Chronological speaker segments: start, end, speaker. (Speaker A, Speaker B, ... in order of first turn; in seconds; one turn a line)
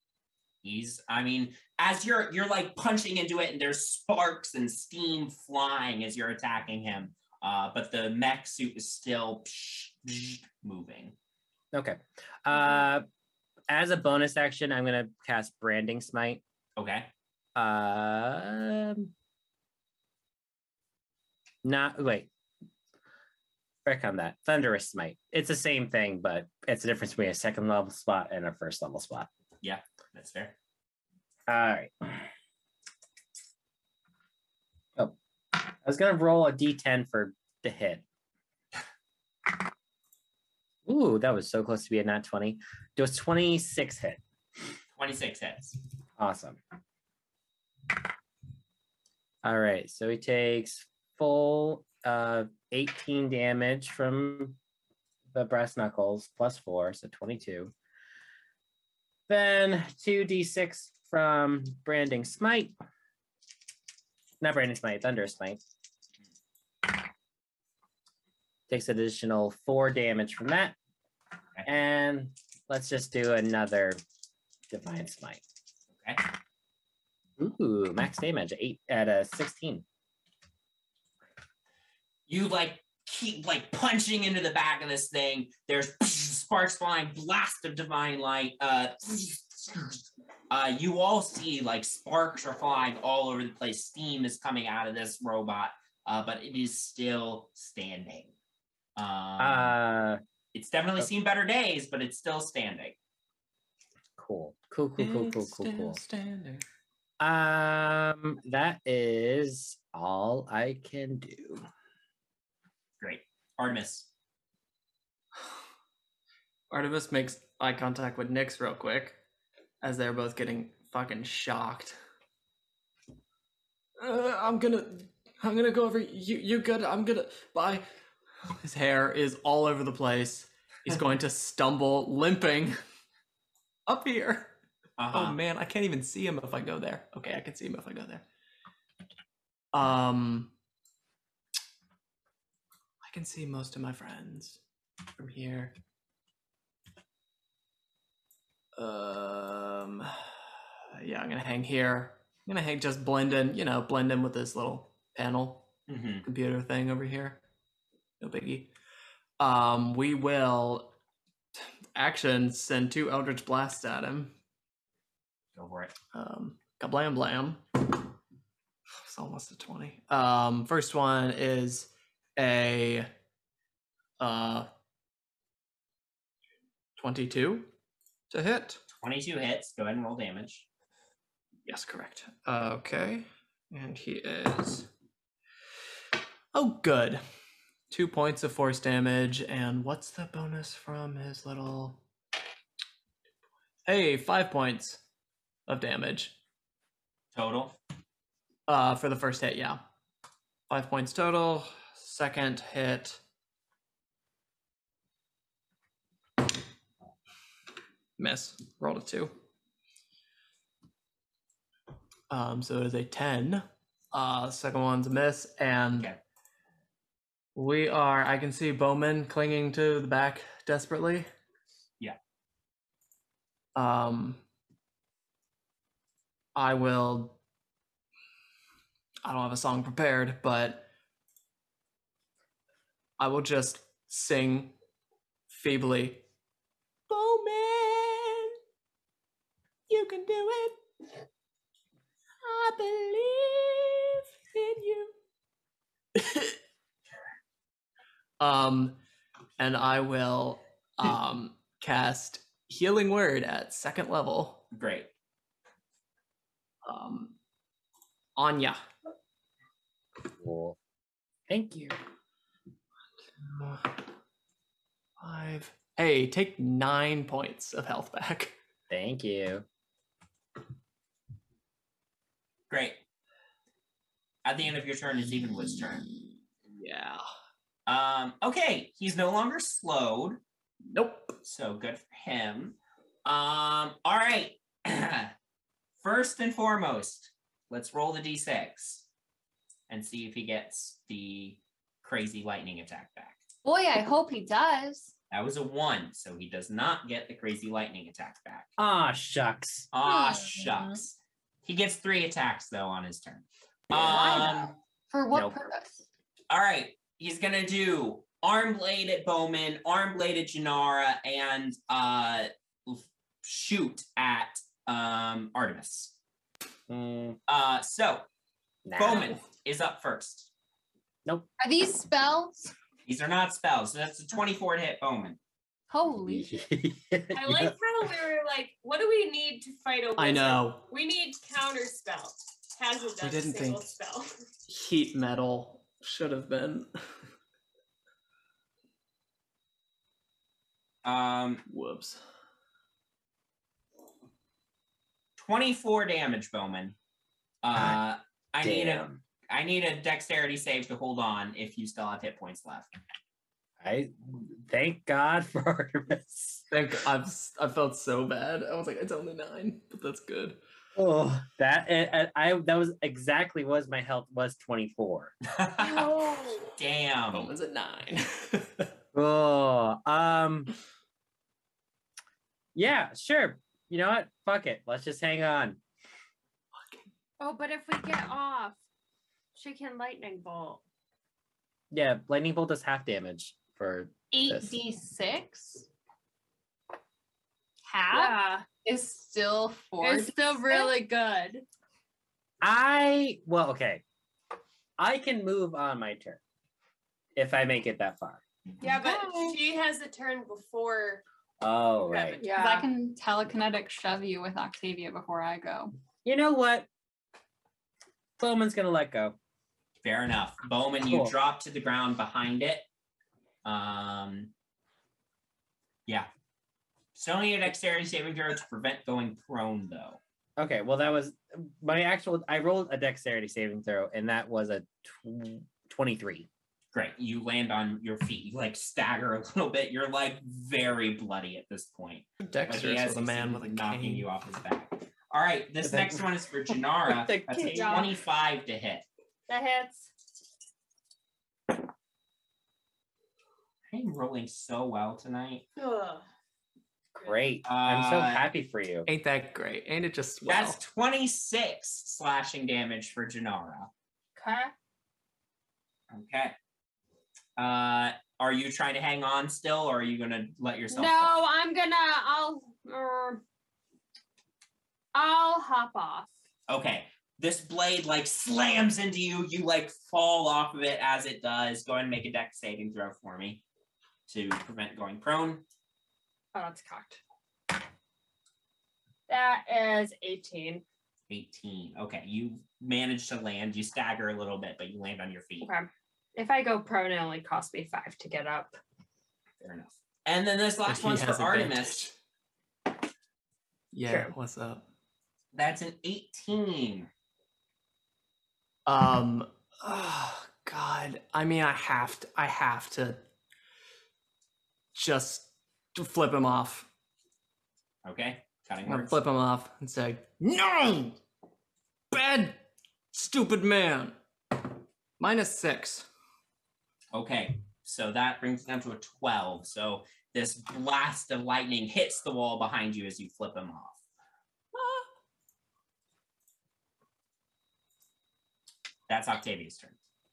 Speaker A: 0.6-11.1
Speaker B: 11.7-13.0
Speaker B: 13.7-16.4
Speaker A: 16.8-17.1
Speaker B: 17.6-19.1
Speaker B: 21.6-22.3
Speaker B: 23.8-29.3
Speaker A: 29.6-30.6
Speaker B: 31.5-32.2
Speaker B: 35.0-38.0
Speaker B: 40.9-44.2
Speaker A: 45.0-45.8
Speaker B: 46.2-46.6
Speaker B: 49.4-54.6
Speaker B: 55.3-57.7
Speaker B: 59.3-62.7
Speaker B: 64.4-65.6
Speaker B: 68.7-70.8
Speaker B: 71.6-74.0
Speaker B: 74.7-75.4
Speaker A: 75.9-76.2
Speaker B: 77.4-79.8
Speaker A: 82.3-98.3
Speaker A: 99.0-99.7
Speaker B: 99.4-100.2
Speaker A: 100.5-103.0
Speaker B: 104.2-106.0
Speaker C: 105.0-106.6
Speaker B: 107.2-111.7
Speaker A: 113.0-114.1
Speaker C: 116.7-119.2
Speaker C: 119.8-122.0
Speaker C: 124.0-127.8
Speaker C: 128.6-132.8
Speaker C: 133.9-134.5
Speaker A: 135.0-135.4
Speaker C: 135.1-138.2
Speaker C: 139.7-140.5
Speaker C: 143.0-144.6
Speaker C: 145.2-145.7
Speaker C: 148.8-150.2
Speaker C: 150.9-155.7
Speaker A: 155.9-156.2
Speaker C: 156.2-157.4
Speaker C: 158.2-158.7
Speaker C: 159.4-160.9
Speaker C: 161.9-164.3
Speaker A: 165.5-165.9
Speaker C: 166.1-167.6
Speaker C: 169.1-173.1
Speaker C: 174.2-174.7
Speaker C: 177.0-177.7
Speaker C: 178.3-178.8
Speaker A: 178.9-180.7
Speaker C: 181.7-184.9
Speaker C: 186.5-187.2
Speaker C: 187.9-192.0
Speaker C: 193.8-195.0
Speaker C: 195.7-196.3
Speaker A: 197.3-197.8
Speaker C: 198.7-199.8
Speaker C: 200.7-203.2
Speaker C: 208.2-209.3
Speaker C: 212.3-216.1
Speaker C: 217.5-221.3
Speaker C: 223.7-224.4
Speaker C: 226.5-227.4
Speaker C: 229.2-230.9
Speaker C: 233.2-234.7
Speaker C: 235.5-236.2
Speaker C: 237.1-238.5
Speaker C: 239.9-240.8
Speaker C: 242.4-245.1
Speaker C: 246.2-246.6
Speaker C: 248.4-249.0
Speaker C: 249.6-254.7
Speaker A: 254.7-255.1
Speaker C: 256.8-257.3
Speaker C: 258.4-258.8
Speaker B: 260.3-260.8
Speaker B: 261.5-261.9
Speaker C: 263.4-263.9
Speaker C: 265.2-268.6
Speaker B: 268.9-269.6
Speaker A: 272.7-273.0
Speaker A: 274.4-276.0
Speaker C: 275.8-277.2
Speaker A: 277.9-280.4
Speaker C: 280.9-281.4
Speaker A: 281.4-285.3
Speaker A: 286.0-289.1
Speaker A: 289.9-293.4
Speaker D: 293.6-295.1
Speaker A: 295.3-298.7
Speaker B: 298.8-299.9
Speaker A: 299.9-304.7
Speaker D: 300.0-301.0
Speaker D: 303.9-306.1
Speaker A: 306.5-316.1
Speaker B: 316.9-317.4
Speaker A: 317.5-318.2
Speaker B: 318.9-319.3
Speaker A: 318.9-320.5
Speaker D: 321.6-322.7
Speaker A: 323.1-325.4
Speaker D: 325.9-326.6
Speaker B: 326.3-327.7
Speaker E: 327.3-334.3
Speaker C: 330.1-330.9
Speaker C: 333.2-333.9
Speaker C: 334.7-336.9
Speaker A: 341.0-341.6
Speaker C: 341.7-342.2
Speaker A: 345.4-346.9
Speaker A: 347.6-352.9
Speaker B: 348.6-349.2
Speaker B: 353.8-356.6
Speaker C: 356.7-360.6
Speaker B: 360.9-365.3
Speaker A: 365.5-367.5
Speaker C: 367.3-368.9
Speaker B: 369.1-370.7
Speaker B: 372.7-375.8
Speaker F: 377.4-378.8
Speaker F: 379.5-380.8
Speaker B: 381.9-384.8
Speaker D: 384.3-385.9
Speaker D: 387.9-390.9
Speaker F: 388.1-388.6
Speaker F: 390.0-391.6
Speaker B: 392.6-394.0
Speaker B: 395.0-396.4
Speaker B: 397.4-398.4
Speaker E: 398.8-401.2
Speaker F: 399.0-399.4
Speaker B: 401.6-402.4
Speaker E: 402.0-402.5
Speaker F: 402.4-402.9
Speaker D: 402.4-405.9
Speaker B: 406.2-406.9
Speaker B: 408.4-409.4
Speaker A: 410.0-412.8
Speaker B: 411.0-411.3
Speaker A: 413.6-414.5
Speaker A: 417.1-420.2
Speaker B: 420.6-426.5
Speaker A: 426.9-439.0
Speaker C: 432.4-434.3
Speaker B: 435.8-436.2
Speaker B: 436.7-438.1
Speaker F: 437.6-438.1
Speaker F: 439.5-440.1
Speaker A: 443.9-445.6
Speaker E: 445.8-446.2
Speaker B: 447.2-449.1
Speaker A: 447.6-448.5
Speaker C: 449.1-450.8
Speaker A: 450.4-453.9
Speaker F: 454.4-454.7
Speaker A: 456.1-456.5
Speaker A: 457.6-461.4
Speaker F: 460.9-463.4
Speaker F: 465.1-466.3
Speaker A: 466.7-473.6
Speaker A: 474.3-475.6
Speaker F: 476.5-477.2
Speaker F: 479.3-480.8
Speaker A: 481.3-485.7
Speaker F: 485.6-488.8
Speaker A: 489.6-492.1
Speaker C: 490.9-492.1
Speaker C: 493.9-494.8
Speaker A: 495.5-497.1
Speaker C: 498.9-503.2
Speaker C: 504.9-506.9
Speaker A: 508.0-509.2
Speaker C: 508.8-511.2
Speaker C: 512.1-512.6
Speaker C: 513.1-514.1
Speaker C: 515.2-516.1
Speaker A: 517.1-524.0
Speaker C: 524.8-525.0
Speaker A: 529.1-530.0